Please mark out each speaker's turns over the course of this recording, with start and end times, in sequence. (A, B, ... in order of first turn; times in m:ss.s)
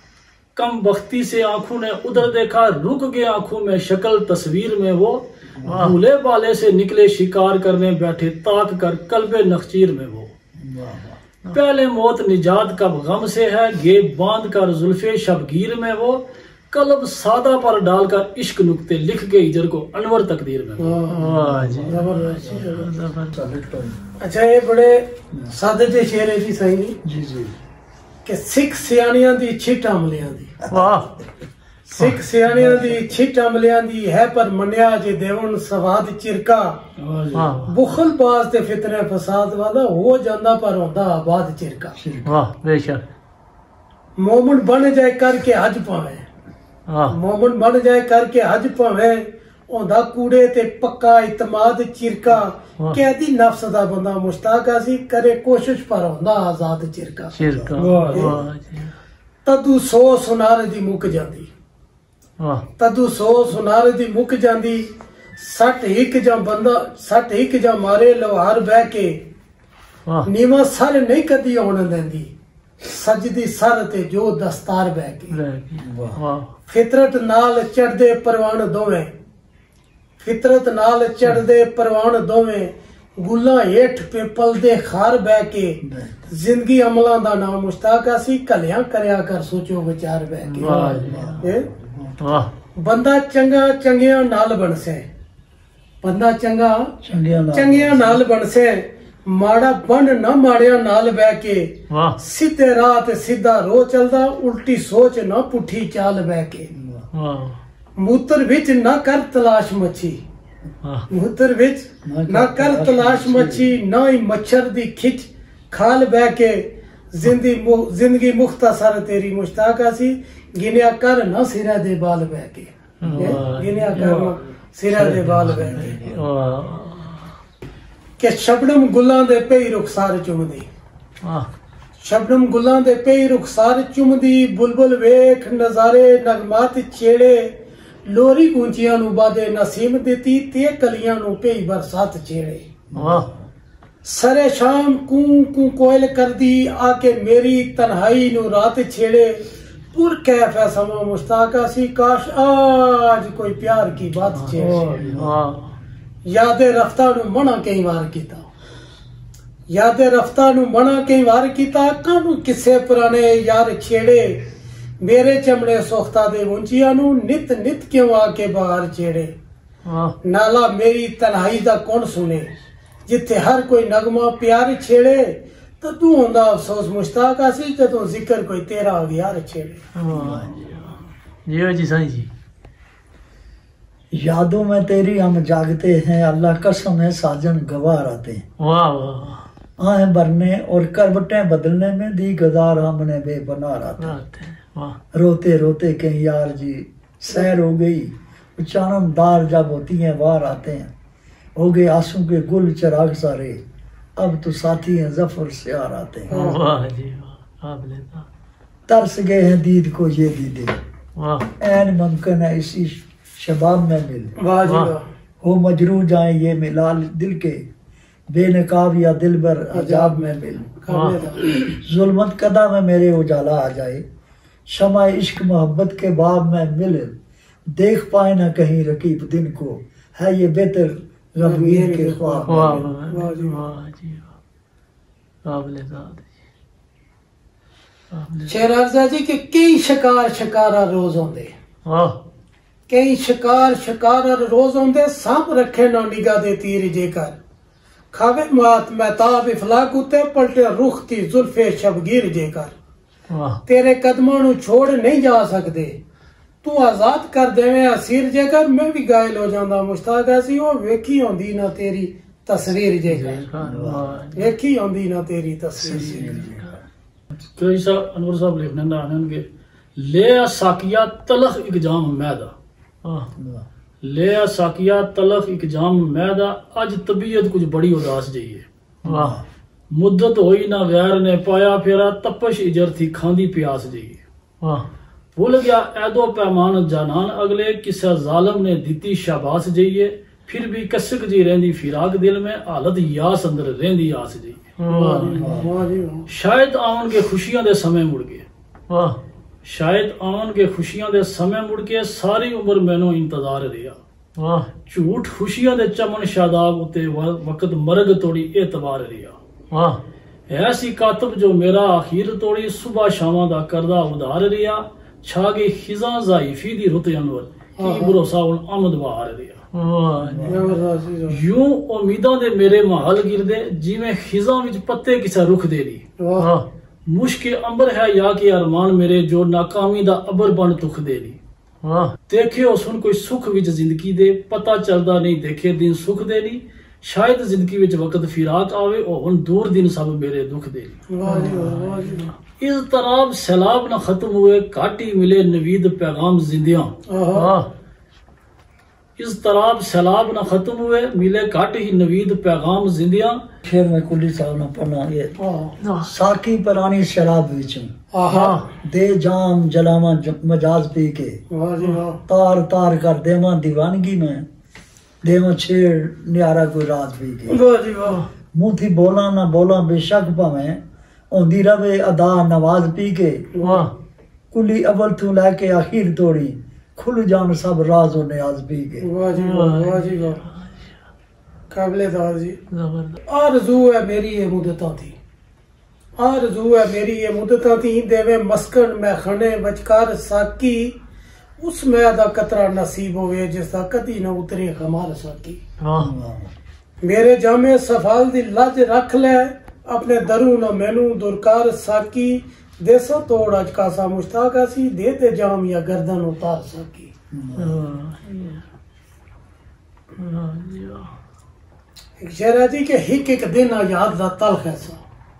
0:00.6-0:10.3 A
0:05.5-0:05.9 B
0:05.6-0:06.0 C
0:10.6-0:11.2 B
0:11.5-0:21.0 A
0:20.8-0:21.2 D
0:21.1-0:23.4 C
0:21.1-0:24.2 B
0:21.9-0:22.9 D
0:24.2-0:27.0 D
0:27.0-0:27.6 B
0:28.2-0:30.5 D
0:30.6-0:31.3 B
0:30.7-0:31.1 C
0:31.9-0:33.1 B
0:32.0-0:36.8 D
0:37.0-0:37.4 A
0:37.3-0:37.7 C
0:37.7-0:41.9 D
0:42.0-0:42.4 B
0:42.2-0:43.0 C
0:44.2-0:46.2 D
0:46.9-0:47.1 C
0:47.1-0:58.4 D
0:57.3-0:58.9 C
0:57.8-0:58.3 A
0:59.4-1:01.5 D
1:02.4-1:02.6 C
1:02.8-1:09.2 D
1:10.2-1:15.4 D
1:15.3-1:16.5 C
1:15.8-1:16.2 B
1:16.7-1:19.1 D
1:20.2-1:25.8 D
1:25.8-1:26.3 B
1:26.3-1:31.7 D
1:30.4-1:31.4 C
1:30.7-1:32.4 B
1:32.2-1:32.5 C
1:32.8-1:35.0 D
1:36.0-1:36.9 D
1:37.0-1:38.2 B
1:37.5-1:46.7 D
1:41.9-1:42.2 C
1:46.7-1:47.1 B
1:47.1-1:47.6 C
1:48.0-1:50.2 D
1:51.1-2:06.0 D
1:52.0-1:53.8 B
2:03.0-2:04.4 C
2:03.0-2:03.4 B
2:04.9-2:07.3 C
2:05.4-2:06.2 B
2:08.2-2:10.7 D
2:11.2-2:11.5 C
2:12.0-2:22.7 D
2:22.9-2:23.5 B
2:22.9-2:23.3 C
2:24.0-2:35.1 D
2:34.3-2:35.7 C
2:34.6-2:35.3 B
2:36.2-2:38.5 D
2:39.7-2:44.4 D
2:45.0-2:49.3 D
2:49.8-2:50.2 C
2:50.2-2:52.5 D
2:53.1-2:59.8 D
3:00.0-3:02.3 C
3:00.1-3:00.5 B
3:04.1-3:08.4 B
3:08.6-3:09.4 C
3:09.8-3:14.2 B
3:14.0-3:15.0 C
3:15.1-3:20.9 B
3:21.6-3:23.6 B
3:24.2-3:26.4 B
3:26.3-3:26.6 D
3:26.3-3:28.2 C
3:28.9-3:30.8 B
3:31.2-3:31.5 C
3:31.6-3:34.3 B
3:34.4-3:35.0 D
3:34.6-3:34.9 C
3:35.4-3:37.7 B
3:38.3-3:40.7 B
3:39.7-3:41.6 D
3:40.9-3:41.2 C
3:41.8-3:44.0 B
3:44.7-3:47.2 B
3:47.7-3:52.9 B
3:51.4-3:53.6 D
3:52.5-3:54.3 C
3:55.4-3:56.3 C
3:58.1-3:58.6 C
3:58.5-4:01.5 D
4:01.8-4:02.2 C
4:02.9-4:07.4 D
4:08.1-4:12.7 D
4:13.3-4:13.6 C
4:13.6-4:16.0 D
4:16.6-4:23.5 D
4:23.1-4:24.5 C
4:23.6-4:24.1 B
4:24.4-4:26.4 D
4:25.8-4:26.8 B
4:25.8-4:26.7 C
4:27.6-4:32.5 A
4:33.4-4:33.7 B
4:34.0-4:38.6 A
4:39.0-4:39.4 B
4:39.0-4:39.4 C
4:39.9-4:44.2 A
4:45.4-4:54.7 A
4:54.8-4:55.4 C
4:54.9-4:56.3 D
4:55.4-4:55.7 B
4:56.3-4:58.4 A
4:58.9-4:59.2 C
4:59.6-5:04.0 A
5:04.4-5:04.7 C
5:04.9-5:09.4 A
5:09.7-5:10.0 C
5:10.5-5:19.6 A
5:17.8-5:18.2 D
5:19.7-5:20.7 C
5:20.2-5:20.7 B
5:20.5-5:21.4 D
5:21.3-5:26.0 A
5:26.2-5:26.5 D
5:26.4-5:26.6 C
5:27.1-5:31.4 A
5:31.8-5:32.2 C
5:32.3-5:41.0 A
5:41.1-5:42.3 D
5:41.3-5:42.3 C
5:42.6-5:46.9 A
5:47.1-5:47.5 D
5:47.4-5:47.6 C
5:49.2-5:53.4 A
5:53.6-5:55.3 B
5:55.4-5:55.8 D
5:55.8-5:56.1 C
5:56.0-5:57.9 B
5:58.1-5:58.7 D
5:58.8-6:01.4 B
6:01.5-6:02.2 D
6:02.3-6:04.4 B
6:05.2-6:07.6 B
6:07.5-6:08.2 D
6:08.5-6:13.5 B
6:13.5-6:13.9 D
6:13.6-6:13.9 C
6:14.5-6:19.1 B
6:19.0-6:20.4 D
6:19.4-6:20.9 C
6:21.7-6:22.6 D
6:22.7-6:23.2 C
6:23.3-6:25.1 D
6:26.2-6:31.0 D
6:31.6-6:35.6 D
6:35.8-6:36.1 C
6:36.0-6:36.5 B
6:37.0-6:47.1 D
6:47.3-6:47.8 B
6:47.6-6:48.6 C
6:50.2-6:51.1 C
6:52.2-6:55.0 D